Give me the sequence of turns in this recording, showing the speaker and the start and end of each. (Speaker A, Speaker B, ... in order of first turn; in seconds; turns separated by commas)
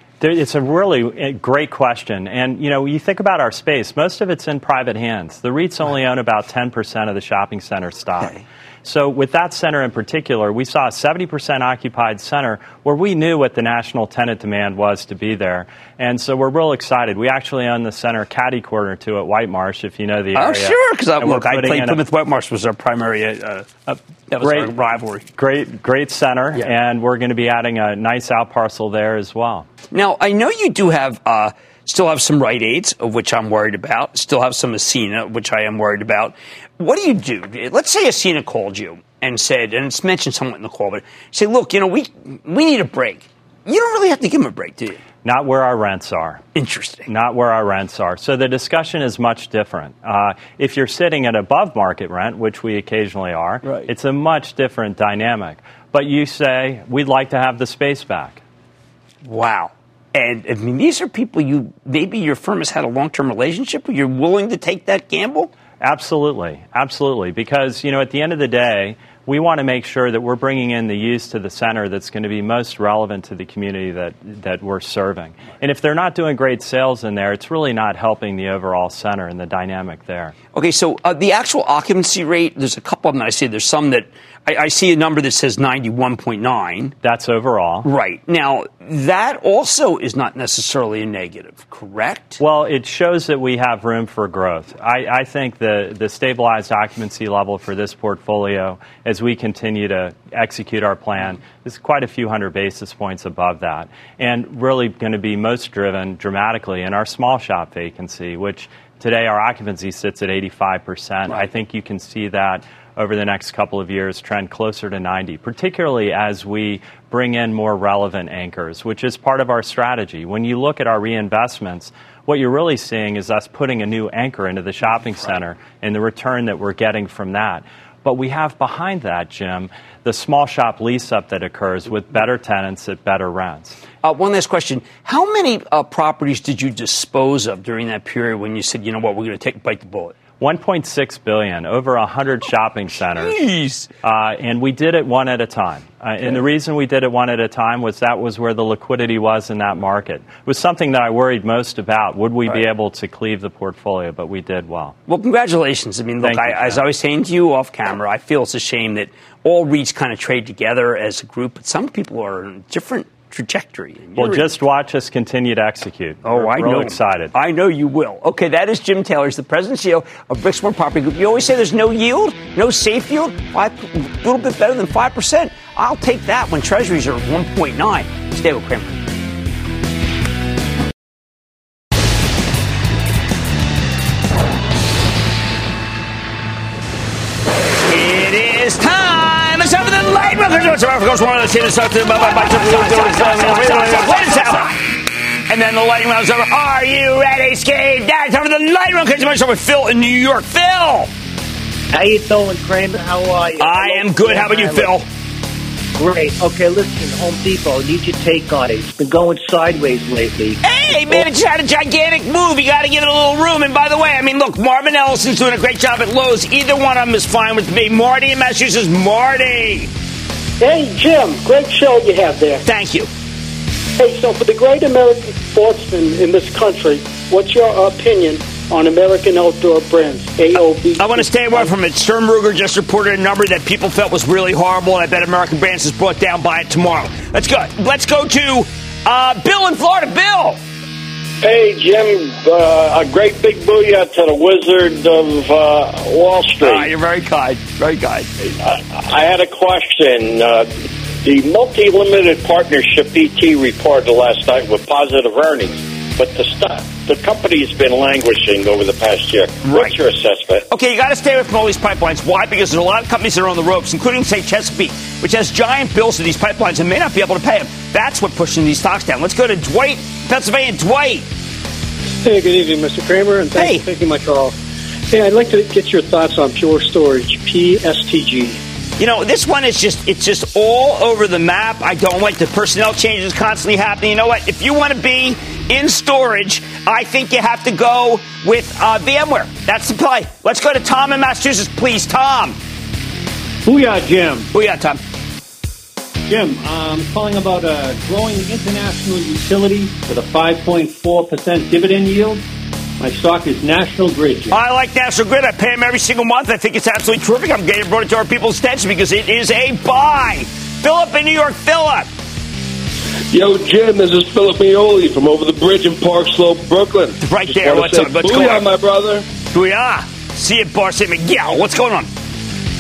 Speaker A: 0.2-22.0, Speaker B: 20.3-25.3, Speaker A: 24.4-24.7, Speaker A: 25.4-29.7, Speaker B: 29.9-45.0, Speaker A: 45.2-46.4, Speaker B: 46.5-47.1, Speaker A: 47.1-58.4, Speaker B: 53.6-53.9, Speaker B: 59.2-65.5, Speaker A: 65.8-80.3, Speaker B: 80.5-86.9, Speaker A: 87.0-87.9, Speaker B: 87.8-92.4, Speaker A: 92.4-133.8, Speaker B: 134.0-140.2, Speaker A: 140.4-143.4, Speaker B: 143.2-143.9, Speaker A: 144.0-154.9, Speaker B: 155.1-164.6, Speaker A: 156.2-156.8, Speaker A: 164.2-167.3, Speaker B: 166.2-179.0, Speaker B: 187.8-194.8, Speaker A: 192.3-194.7, Speaker B: 195.5-201.1, Speaker C: 201.9-204.9, Speaker B: 203.6-205.1, Speaker C: 206.0-210.6, Speaker B: 210.6-219.9, Speaker D: 220.6-222.6, Speaker B: 222.6-223.1, Speaker D: 224.0-231.7, Speaker B: 231.0-240.6, Speaker E: 241.4-246.9, Speaker B: 246.6-248.3, Speaker E: 248.6-260.6, Speaker B: 259.6-259.9, Speaker B: 260.7-271.3, Speaker D: 272.2-274.5, Speaker B: 273.5-273.8, Speaker D: 275.1-278.6, Speaker B: 279.0-292.6, Speaker F: 293.7-294.5, Speaker B: 294.5-295.0, Speaker F: 296.3-302.4, Speaker F: 303.0-304.6, Speaker B: 304.5-312.1, Speaker G: 313.3-319.2, Speaker B: 317.2-318.6, Speaker B: 319.5-322.1